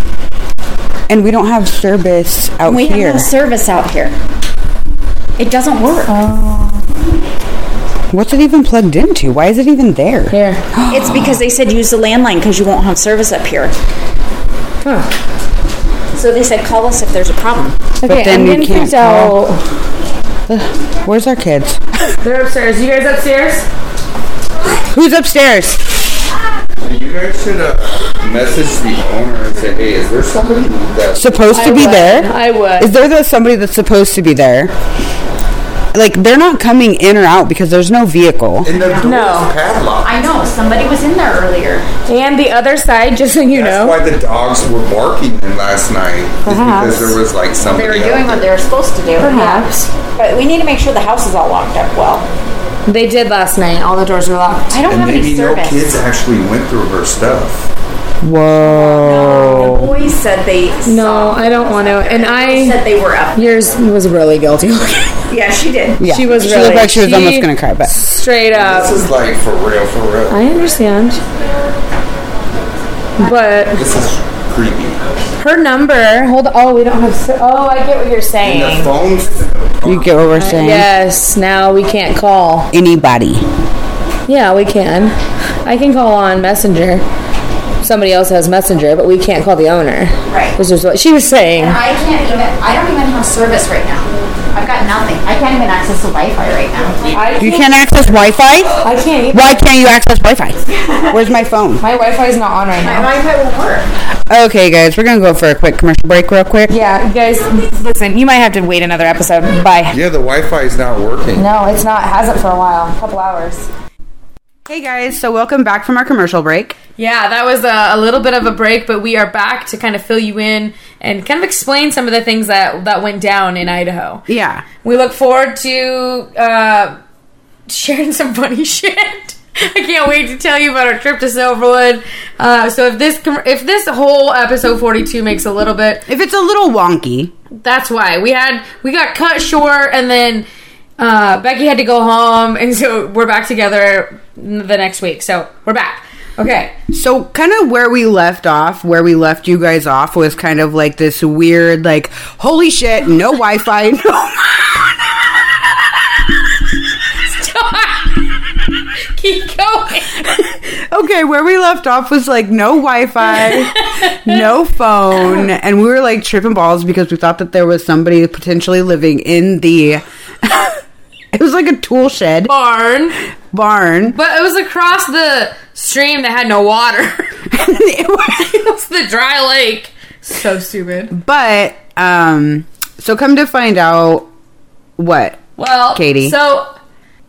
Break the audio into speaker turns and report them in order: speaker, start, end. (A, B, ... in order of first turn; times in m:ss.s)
0:01.1-0:03.3 A
0:02.6-0:04.1 B
0:05.4-0:06.1 B
0:06.1-0:06.8 C
0:08.1-0:11.4 A
0:10.3-0:10.6 C
0:10.9-0:13.7 B
0:14.8-0:15.1 C
0:16.1-0:17.8 B
0:18.0-0:19.6 C
0:18.0-0:19.4 A
0:20.5-0:21.8 A
0:22.2-0:23.7 C
0:24.8-0:25.9 A
0:26.8-0:31.3 D
0:31.1-0:34.7 A
0:31.5-0:32.9 C
0:35.9-0:38.7 A
0:38.6-0:40.1 D
0:38.8-0:39.1 B
0:39.0-0:39.5 C
0:40.0-0:41.9 B
0:42.1-0:44.0 C
0:43.5-0:48.5 D
0:46.4-0:47.2 C
0:47.6-0:52.3 B
0:49.2-0:49.9 C
0:52.8-0:54.8 C
0:54.7-0:56.0 B
0:54.8-0:57.6 D
0:58.2-1:00.0 A
0:58.6-1:03.6 B
1:00.8-1:02.8 C
1:03.4-1:05.1 C
1:04.6-1:04.9 A
1:05.3-1:06.1 B
1:06.0-1:07.9 A
1:06.0-1:09.0 C
1:08.5-1:10.4 D
1:10.3-1:11.2 C
1:13.2-1:13.8 C
1:13.8-1:15.0 D
1:15.4-1:18.9 C
1:18.4-1:20.3 D
1:19.8-1:20.9 A
1:20.4-1:22.7 C
1:22.7-1:23.4 A
1:24.3-1:27.0 C
1:27.8-1:31.8 C
1:30.3-1:30.6 B
1:31.6-1:37.1 B
1:37.1-1:38.0 C
1:37.4-1:41.8 A
1:38.8-1:39.6 C
1:40.8-1:41.2 B
1:41.8-1:43.1 C
1:42.8-1:43.9 B
1:44.3-1:46.8 A
1:46.7-1:50.0 C
1:49.9-1:51.4 D
1:51.4-1:53.7 C
1:54.6-1:56.8 A
1:57.0-2:04.2 C
2:04.3-2:04.6 A
2:04.8-2:07.0 C
2:07.7-2:16.0 C
2:16.1-2:17.3 A
2:17.6-2:20.4 C
2:21.0-2:26.8 C
2:26.9-2:35.3 A
2:37.2-2:38.3 C
2:39.1-2:40.4 C
2:40.9-2:50.7 A
2:43.4-2:44.4 C
2:45.2-2:45.5 C
2:51.3-2:52.5 A
2:52.4-2:53.2 C
2:53.5-2:54.2 A
2:54.0-2:57.5 C
2:57.5-2:58.5 A
2:58.4-3:01.1 C
3:01.1-3:04.3 A
3:05.0-3:06.4 A
3:05.6-3:06.7 C